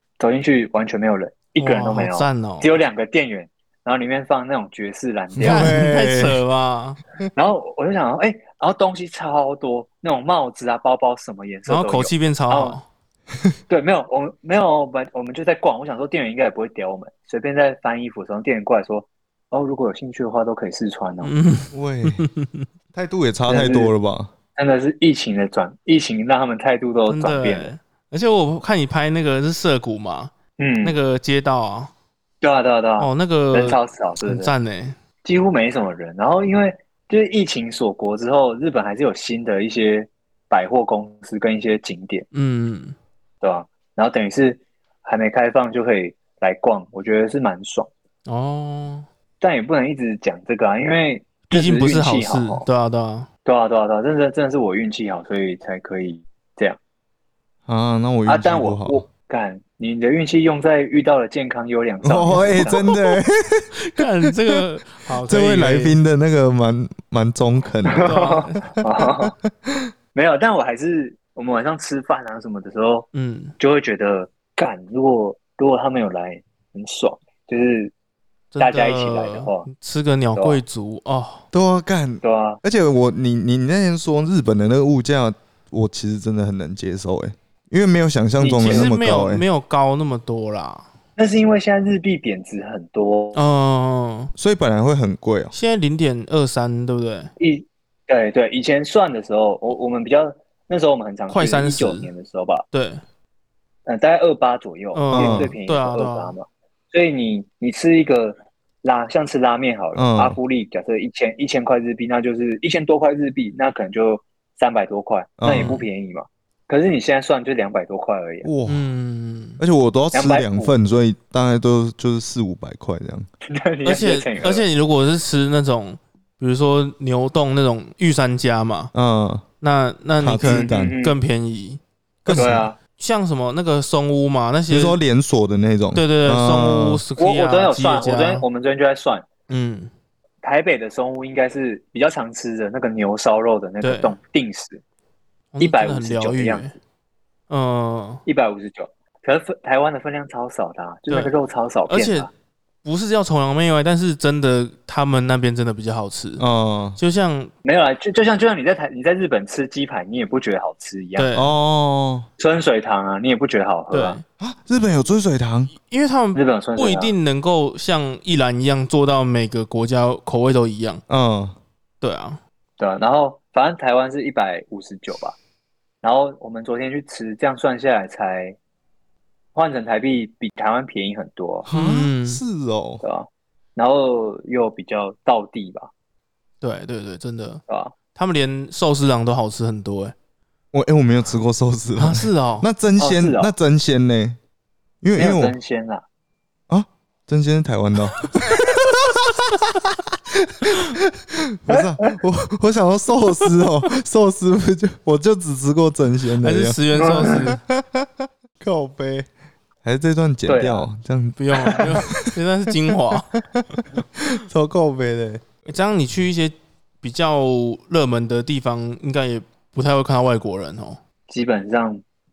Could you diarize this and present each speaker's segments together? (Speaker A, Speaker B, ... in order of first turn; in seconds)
Speaker A: 0.2-5.8, 7.3-12.8, 13.7-21.3, 23.5-23.9, 24.6-27.7, 30.6-30.9, 32.4-34.5, 35.2-42.2, 43.4-47.9, 49.4-52.6, 53.4-56.8, 58.2-62.9, 67.8-69.3, 70.1-73.1, 73.6-77.9, 78.6-79.7, 80.3-80.6, 82.2-82.6, 88.4-89.0, 91.2-93.4, 97.4-102.6, 103.8-118.5, 120.1-120.7, 123.5-124.6, 130.4-131.2, 132.3-132.8, 137.2-139.3, 140.4-144.8, 145.6-146.7, 148.2-152.3, 157.6-161.3, 162.4-164.2, 166.3-167.1, 172.8-175.3, 176.0-178.6, 179.5-181.7, 183.0-185.9, 187.7-187.9, 193.0-193.5, 195.2-196.0, 201.7-202.1, 206.9-207.5, 210.5-210.9, 221.3-222.0
Speaker B: 1.6-2.7, 5.4-7.0, 11.7-12.8, 21.2-22.6, 27.1-30.3, 30.8-31.9, 33.0-35.0, 42.3-43.0, 48.2-49.0, 51.5-53.3, 62.3-62.9, 63.8-66.0, 68.0-68.7, 73.1-73.5, 78.5-81.4, 88.6-90.9, 93.3-94.3, 95.5-97.3, 101.3-102.1, 102.7-103.0, 104.9-106.3, 115.5-115.8, 118.7-119.6, 123.8-128.9, 129.6-135.0, 135.9-138.4, 139.5-139.9, 143.8-144.2, 145.5-146.7, 147.5-148.2, 151.9-152.3, 152.8-156.4, 157.0-157.5, 161.2-161.5, 163.9-164.2, 165.9-171.0, 172.0-172.4, 181.7-182.4, 186.6-187.6, 188.1-190.1, 192.0-192.7, 206.4-207.6, 211.4-213.3, 215.7-221.0
Speaker C: 5.3-6.4, 21.7-22.2, 22.9-24.3, 57.7-59.0, 62.0-64.6, 65.2-68.1, 69.2-69.9, 81.5-89.4, 94.4-95.5, 105.1-105.5, 109.9-110.4, 115.4-115.8, 118.4-118.9, 119.6-123.3, 128.9-129.4, 130.2-130.9, 132.2-132.7, 134.7-137.0, 156.4-157.0, 161.3-162.3, 164.4-165.7, 171.1-171.5, 181.7-183.0, 190.7-194.4, 195.0-195.5, 196.7-209.3, 209.8-212.3, 213.1-215.7